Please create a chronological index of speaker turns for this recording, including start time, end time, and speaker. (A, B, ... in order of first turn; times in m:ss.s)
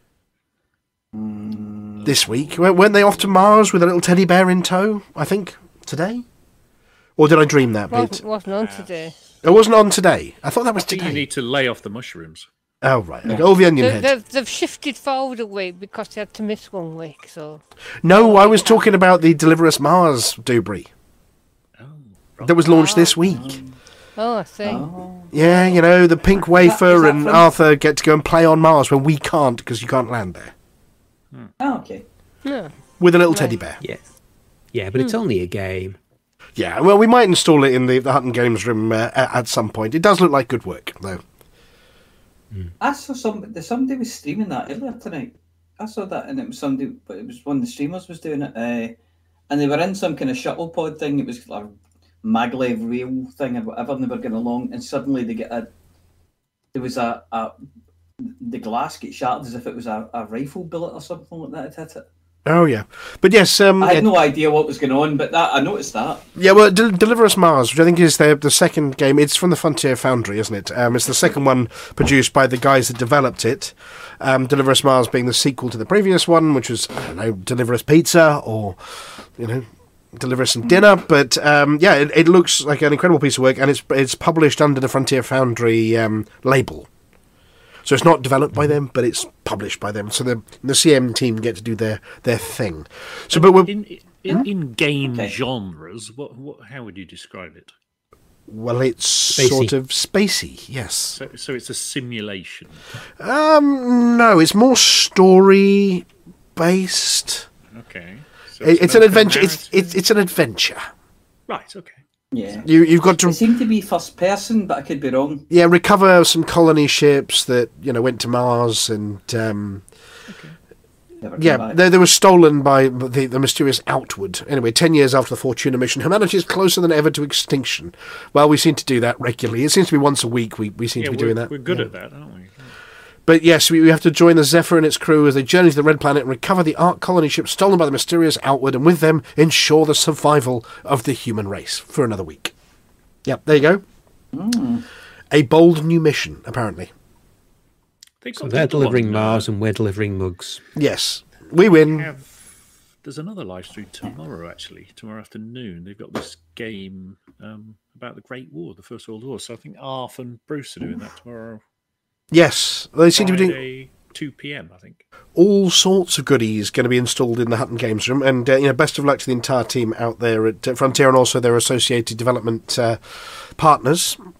0:01.1-0:02.1 A
0:02.0-0:06.2 B
0:07.2-0:08.2 B
0:07.9-0:09.1 C
0:08.6-0:08.9 D
0:09.4-0:11.2 B
0:10.8-0:12.5 D
0:12.8-0:14.1 B
0:13.8-0:17.6 C
0:18.0-0:20.9 B
0:18.1-0:18.8 C
0:21.8-0:22.8 D
0:22.4-0:23.6 B
0:22.7-0:23.2 C
0:23.2-0:23.8 A
0:24.2-0:25.7 C
0:24.6-0:25.2 A
0:25.3-0:30.5 B
0:26.4-0:27.5 A
0:31.6-0:32.0 A
0:32.4-0:32.7 C
0:33.0-0:33.8 B
0:33.3-0:33.6 C
0:34.7-0:36.0 E
0:36.6-0:41.2 B
0:42.8-0:49.0 A
0:49.5-0:55.7 A
0:56.7-0:57.5 A
0:58.2-1:02.0 A
1:02.4-1:04.1 B
1:03.8-1:06.2 A
1:06.4-1:26.9 B
1:27.8-1:33.7 B
1:33.3-1:37.7 D
1:35.0-1:35.4 A
1:38.5-1:41.2 B
1:39.3-1:39.7 E
1:41.1-1:42.8 D
1:43.2-1:47.5 B
1:47.7-1:50.0 D
1:48.6-1:50.8 B
1:51.5-1:52.6 D
1:52.3-1:55.4 A
1:52.6-1:53.4 B
1:55.5-1:59.8 B
2:00.3-2:00.6 D
2:01.2-2:01.8 A
2:01.4-2:11.9 B
2:11.0-2:12.8 D
2:13.3-2:22.5 B
2:23.2-2:23.8 B
2:24.3-2:24.8 A
2:25.3-2:26.9 B
2:28.2-2:29.5 D
2:28.4-2:30.6 E
2:30.7-2:32.1 B
2:31.7-2:41.6 D
2:42.3-2:43.6 B
2:43.1-2:45.0 D
2:45.3-2:54.2 B